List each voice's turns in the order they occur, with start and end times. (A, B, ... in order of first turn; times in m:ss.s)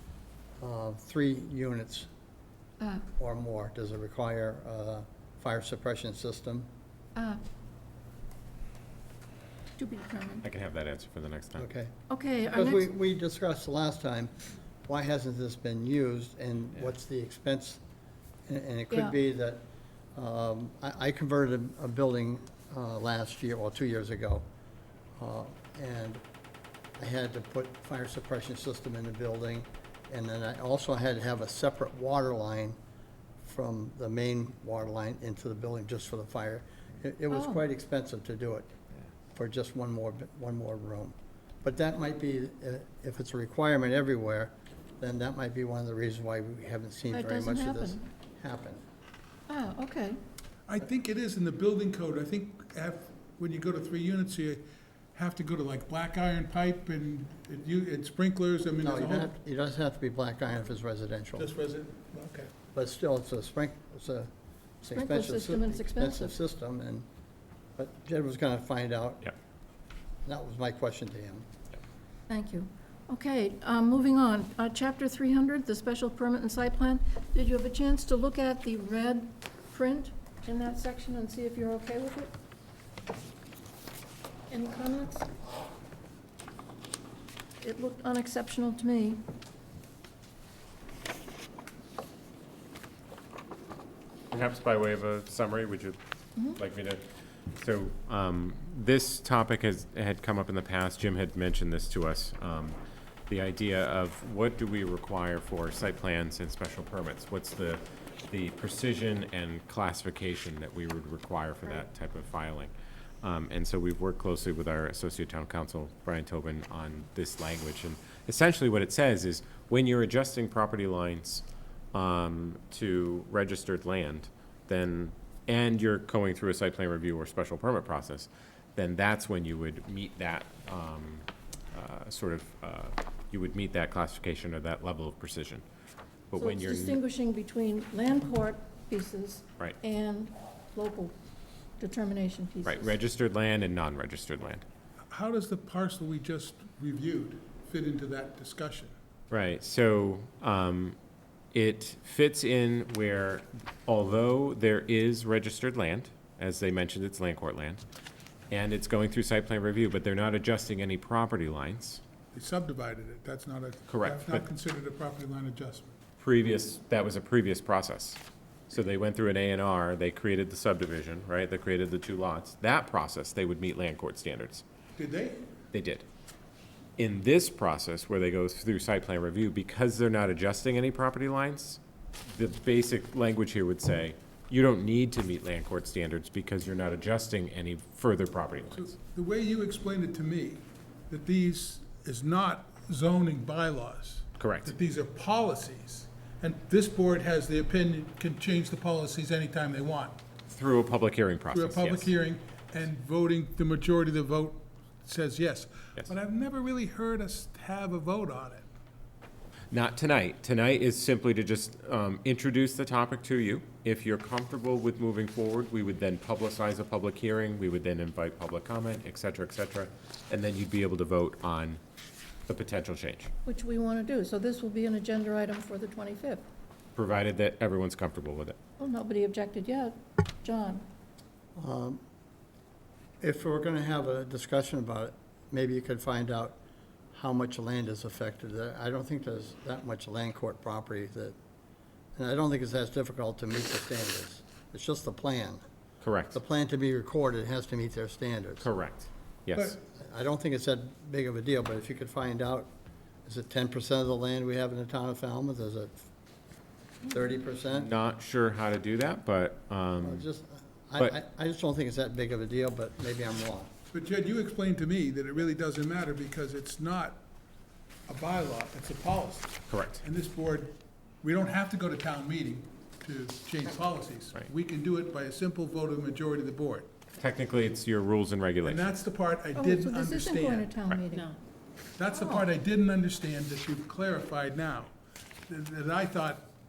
0:00.6-0:02.1 A
0:02.8-0:03.1 B
0:03.2-0:06.7 A
0:07.2-0:07.4 B
0:09.8-0:10.4 B
0:10.4-0:11.6 C
0:11.6-0:11.9 A
0:12.1-0:12.8 B
0:12.5-0:14.3 A
0:14.9-0:17.8 A
0:18.5-0:19.6 A
0:20.2-0:24.4 A
0:25.2-0:26.2 A
0:27.0-0:32.8 A
0:33.4-0:38.7 A
0:37.3-0:37.6 B
0:39.3-0:48.8 A
0:47.1-0:48.1 B
0:49.5-0:50.2 B
0:50.7-0:54.6 D
0:55.1-0:59.3 D
0:58.8-1:01.5 A
1:01.4-1:02.5 D
1:02.7-1:04.3 A
1:04.8-1:07.0 A
1:04.9-1:06.4 B
1:07.8-1:09.3 A
1:10.2-1:11.4 A
1:12.3-1:22.3 B
1:24.5-1:25.3 B
1:27.6-1:29.2 B
1:34.3-1:36.0 C
1:36.5-1:37.0 C
1:37.5-1:42.8 C
1:43.3-2:15.6 C
2:16.3-2:17.0 C
2:16.4-2:21.1 B
2:21.8-2:22.9 B
2:22.6-2:24.6 C
2:25.1-2:28.9 D
2:29.3-2:31.0 C
2:31.5-2:37.8 C
2:38.5-2:42.0 C
2:42.3-2:45.9 D
2:43.9-2:44.5 C
2:46.2-2:54.6 C
2:55.0-2:55.5 D
2:55.7-2:56.0 C
2:57.0-3:08.9 C
3:08.7-3:20.2 D
3:14.4-3:14.7 C
3:20.5-3:22.1 C
3:21.5-3:28.6 D
3:29.7-3:41.8 C
3:42.5-3:43.3 C
3:43.4-3:46.4 B
3:47.0-3:48.6 C
3:48.8-3:50.8 B
3:51.6-3:52.0 A
3:53.2-3:56.6 A
3:57.1-4:01.3 A
4:02.2-4:05.6 A
4:06.0-4:06.4 C
4:06.3-4:08.7 A
4:08.6-4:09.8 C
4:09.8-4:12.7 A
4:13.2-4:16.1 A
4:17.0-4:17.9 A
4:17.7-4:20.3 C
4:20.0-4:23.7 A
4:23.9-4:27.2 D
4:28.1-4:36.9 D
4:29.7-4:30.0 C
4:37.2-4:38.9 C
4:38.6-4:40.7 D
4:39.5-4:41.4 B
4:42.0-4:44.9 D
4:42.1-4:42.5 B
4:45.5-4:46.5 D